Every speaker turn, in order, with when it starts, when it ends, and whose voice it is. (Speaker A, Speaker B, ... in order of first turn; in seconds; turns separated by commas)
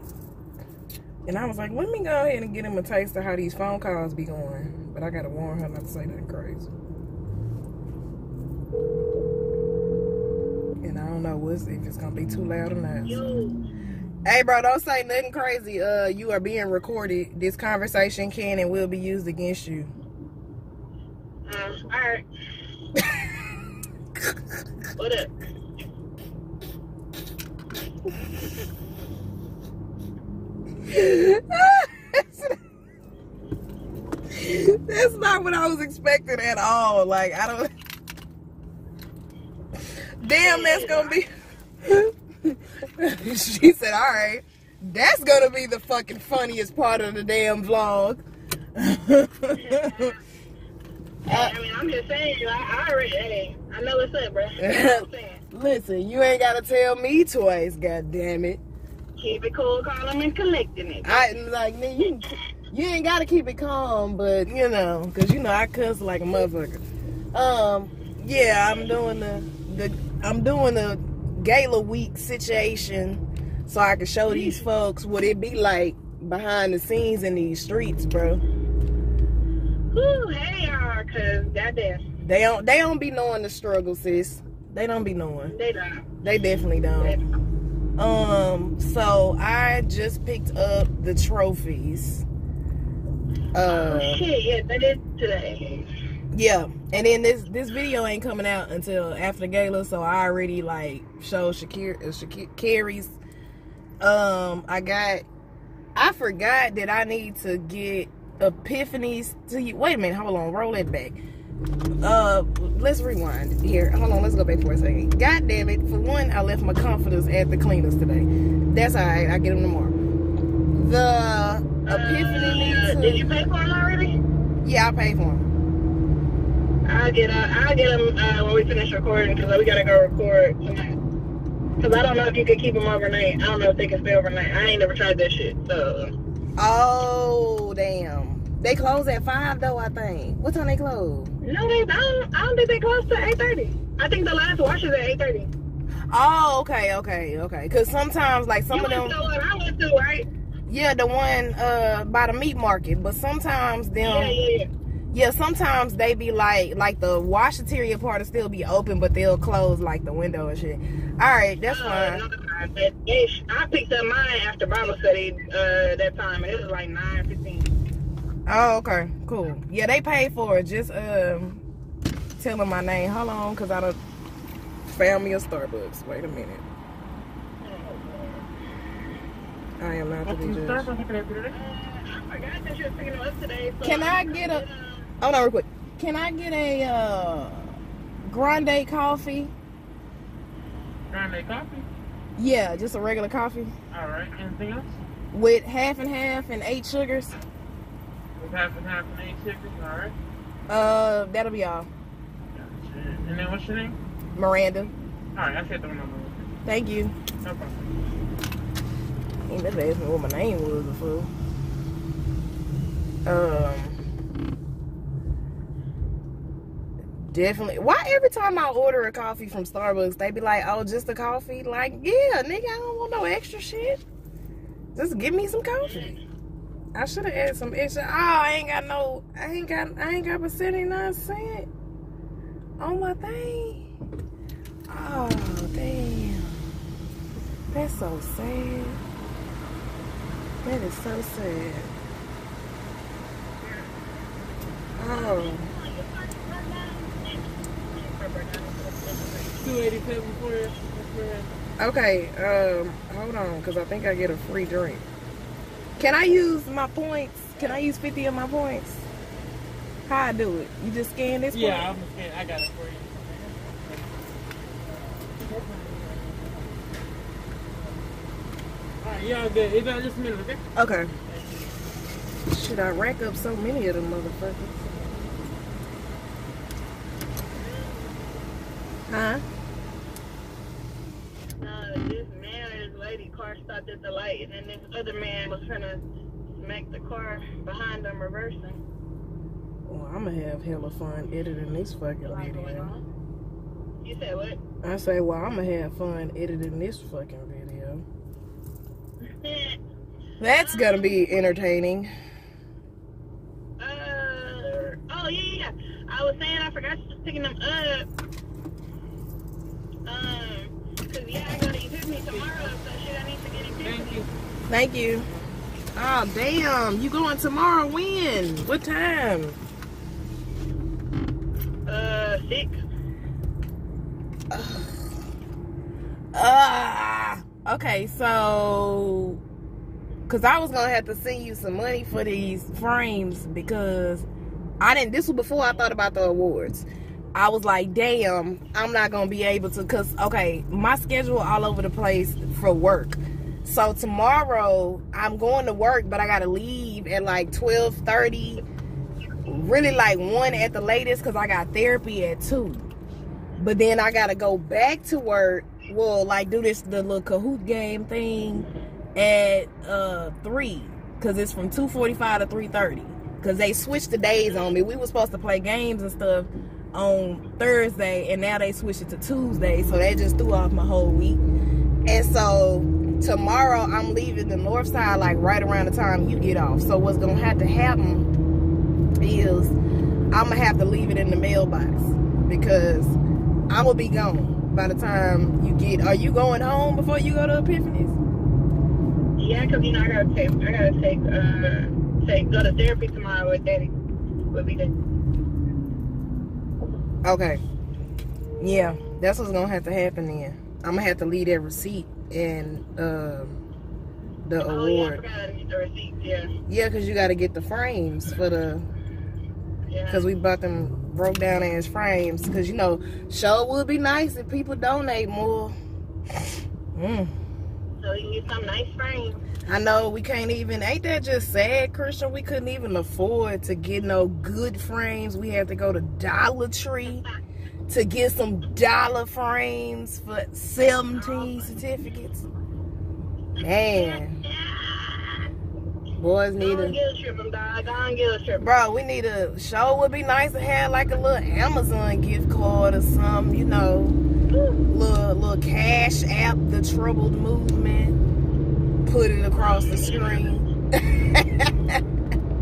Speaker A: 1.3-6.7, Speaker A: 10.8-13.2, Speaker B: 13.1-13.6, Speaker A: 14.2-19.9, Speaker B: 21.5-22.2, Speaker B: 25.0-25.3, Speaker A: 30.9-32.5, Speaker A: 34.3-37.7, Speaker A: 40.2-41.3, Speaker B: 40.3-41.2, Speaker A: 41.8-48.2, Speaker A: 48.8-50.1, Speaker B: 49.6-50.2, Speaker A: 51.3-51.5, Speaker B: 51.3-55.4, Speaker A: 54.6-58.6, Speaker B: 59.2-61.3, Speaker A: 61.0-78.4, Speaker B: 79.9-82.0, Speaker A: 82.2-85.5, Speaker B: 85.5-86.0, Speaker A: 86.2-87.2, Speaker A: 88.0-92.2, Speaker A: 93.5-94.2, Speaker B: 93.7-95.9, Speaker A: 96.3-103.2, Speaker A: 104.0-105.3, Speaker A: 106.0-111.2, Speaker A: 112.0-120.0, Speaker A: 120.7-123.5, Speaker B: 121.9-124.2, Speaker A: 124.6-125.5, Speaker B: 126.9-130.9, Speaker B: 131.8-136.1, Speaker A: 136.6-141.3, Speaker B: 141.4-145.5, Speaker A: 146.1-149.2, Speaker B: 148.7-150.3, Speaker A: 150.7-154.4, Speaker B: 154.1-154.7, Speaker A: 155.1-162.2, Speaker B: 161.7-167.8, Speaker A: 168.5-171.6, Speaker A: 172.4-174.0, Speaker A: 174.9-176.6, Speaker B: 177.6-178.4, Speaker A: 179.8-180.9, Speaker C: 180.3-181.6, Speaker B: 181.5-185.1, Speaker A: 183.8-184.6, Speaker A: 185.2-189.5, Speaker C: 191.1-191.9, Speaker A: 192.4-193.7, Speaker C: 193.9-194.9, Speaker A: 195.3-197.3, Speaker C: 198.4-200.2, Speaker A: 200.7-201.9, Speaker C: 202.5-204.0, Speaker A: 204.3-204.9, Speaker C: 205.3-206.5, Speaker A: 206.7-207.2, Speaker C: 207.4-207.8, Speaker A: 209.5-211.3, Speaker A: 213.3-214.0, Speaker A: 217.2-224.0, Speaker A: 224.9-226.2, Speaker B: 225.8-226.2, Speaker A: 226.9-231.7, Speaker A: 232.8-233.9, Speaker A: 234.9-236.5, Speaker A: 237.7-239.0, Speaker A: 240.6-241.9, Speaker A: 245.0-245.7, Speaker B: 245.0-249.6, Speaker C: 249.6-251.5, Speaker A: 251.8-255.1, Speaker A: 256.0-259.1, Speaker A: 260.1-261.9, Speaker C: 261.5-264.0, Speaker C: 264.8-266.4, Speaker C: 269.0-270.6, Speaker A: 270.8-271.1, Speaker C: 271.3-271.6, Speaker A: 272.5-275.1, Speaker B: 277.6-278.1, Speaker A: 279.1-279.4, Speaker B: 281.6-286.0, Speaker B: 286.6-288.8, Speaker A: 289.9-292.9, Speaker B: 292.3-293.0, Speaker B: 294.0-294.6, Speaker A: 294.8-298.1, Speaker B: 299.2-299.8, Speaker A: 300.4-302.1, Speaker B: 300.6-301.3, Speaker B: 303.8-308.1, Speaker B: 310.1-314.2, Speaker C: 313.8-314.3, Speaker A: 314.7-315.3, Speaker A: 315.9-319.6, Speaker B: 321.9-322.8, Speaker A: 324.5-325.1, Speaker A: 326.3-329.4, Speaker A: 330.3-334.3, Speaker A: 334.8-348.6, Speaker A: 349.5-352.9, Speaker A: 353.6-371.4, Speaker B: 364.5-364.7, Speaker A: 372.1-378.3, Speaker A: 379.2-379.8, Speaker A: 380.3-383.2, Speaker A: 383.7-388.2, Speaker B: 389.4-393.9, Speaker B: 394.5-394.9, Speaker A: 397.2-397.6, Speaker A: 398.6-403.6, Speaker A: 404.4-405.2, Speaker B: 404.7-406.5, Speaker A: 406.7-408.9, Speaker B: 409.9-410.3, Speaker A: 410.1-415.8, Speaker A: 416.9-417.3, Speaker B: 418.0-419.4, Speaker A: 419.7-427.2, Speaker A: 427.9-432.5, Speaker B: 431.2-431.7, Speaker A: 433.6-434.4, Speaker B: 433.9-435.5, Speaker A: 436.2-437.0, Speaker B: 436.6-438.7, Speaker A: 438.6-444.2, Speaker B: 444.5-444.8, Speaker A: 444.9-448.2, Speaker A: 449.1-452.0, Speaker B: 449.5-450.6